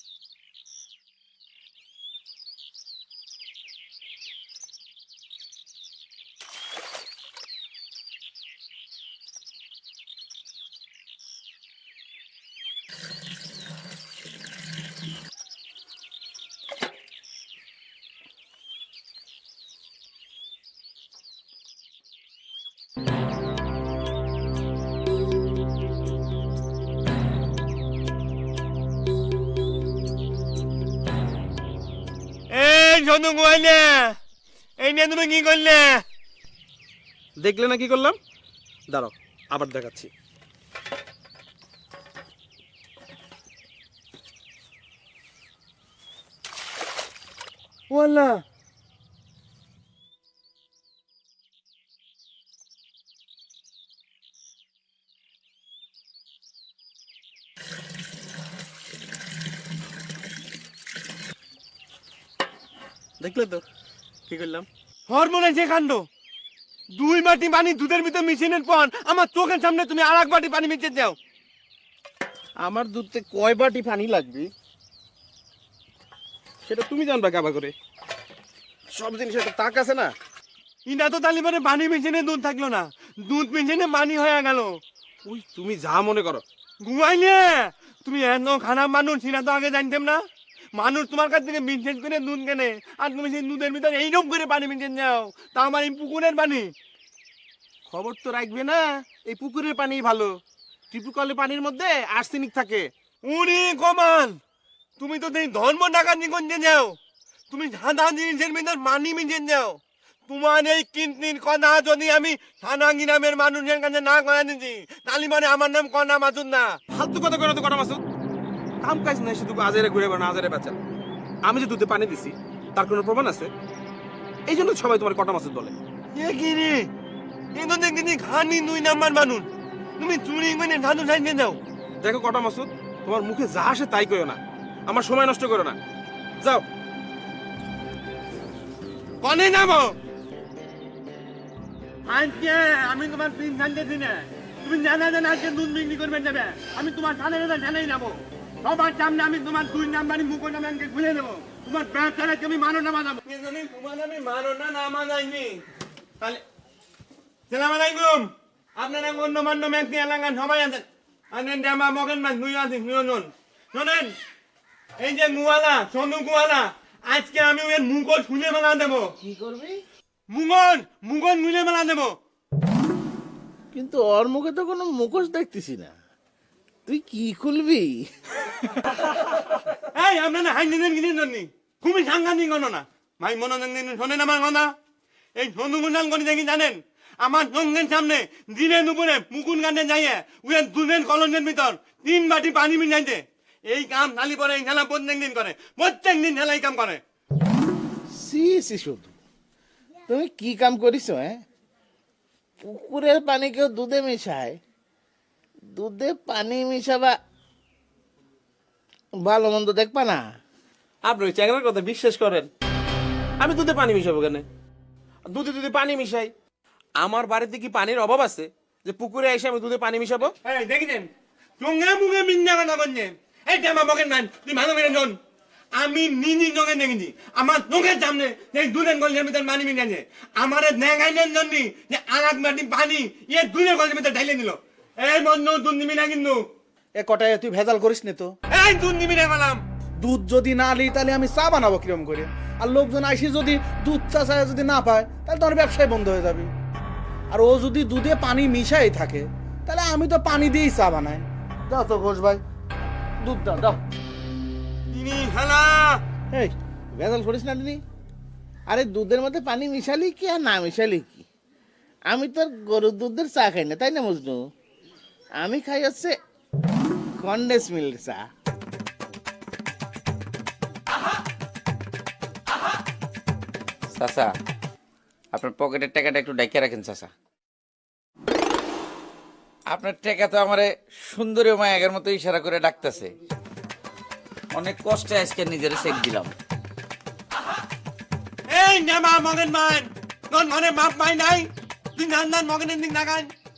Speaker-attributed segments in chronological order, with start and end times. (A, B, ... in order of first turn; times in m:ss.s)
0:32.5-0:34.1 A
0:34.8-0:36.0 A
0:37.4-0:38.2 B
0:38.9-0:40.1 B
0:47.9-0:48.4 A
1:03.2-1:03.6 B
1:04.3-1:04.7 B
1:05.1-1:06.1 A
1:06.9-1:11.2 A
1:12.6-1:14.5 B
1:16.7-1:17.7 B
1:18.9-1:20.1 B
1:20.9-1:24.8 A
1:25.2-1:26.4 B
1:26.8-1:30.2 A
1:30.8-1:36.7 A
1:37.9-1:40.4 B
1:40.9-1:42.9 B
1:43.2-1:44.4 A
1:45.0-1:47.0 A
1:47.5-1:56.8 A
1:56.9-1:58.0 B
1:58.8-2:00.8 B
2:01.4-2:03.5 B
2:04.5-2:05.7 B
2:06.2-2:06.9 A
2:07.6-2:09.5 A
2:10.0-2:11.6 A
2:12.0-2:15.8 B
2:19.2-2:20.0 A
2:22.1-2:35.6 A
2:37.5-2:44.2 A
2:45.0-2:49.1 A
2:49.2-2:49.8 C
2:50.3-2:52.2 A
2:53.7-2:55.9 C
2:56.9-2:58.1 C
2:59.9-3:04.7 A
3:05.4-3:17.0 A
3:18.1-3:19.1 C
3:20.1-3:21.4 C
3:22.6-3:24.6 C
3:25.7-3:27.2 C
3:29.2-3:30.3 C
3:31.0-3:32.5 B
3:33.4-3:34.5 B
3:35.3-3:36.3 B
3:37.0-3:40.3 B
3:40.4-3:45.2 A
3:45.7-3:56.4 A
3:57.0-3:58.4 D
3:58.5-3:59.6 A
4:00.0-4:06.5 D
4:07.3-4:12.4 D
4:13.2-4:13.8 D
4:14.9-4:16.0 A
4:16.3-4:17.8 C
4:18.7-4:21.2 C
4:22.1-4:24.4 C
4:25.4-4:26.2 C
4:27.2-4:28.3 C
4:33.9-4:34.3 E
4:35.3-4:37.1 E
4:39.7-4:43.1 E
4:44.5-4:46.3 E
4:48.5-4:53.3 A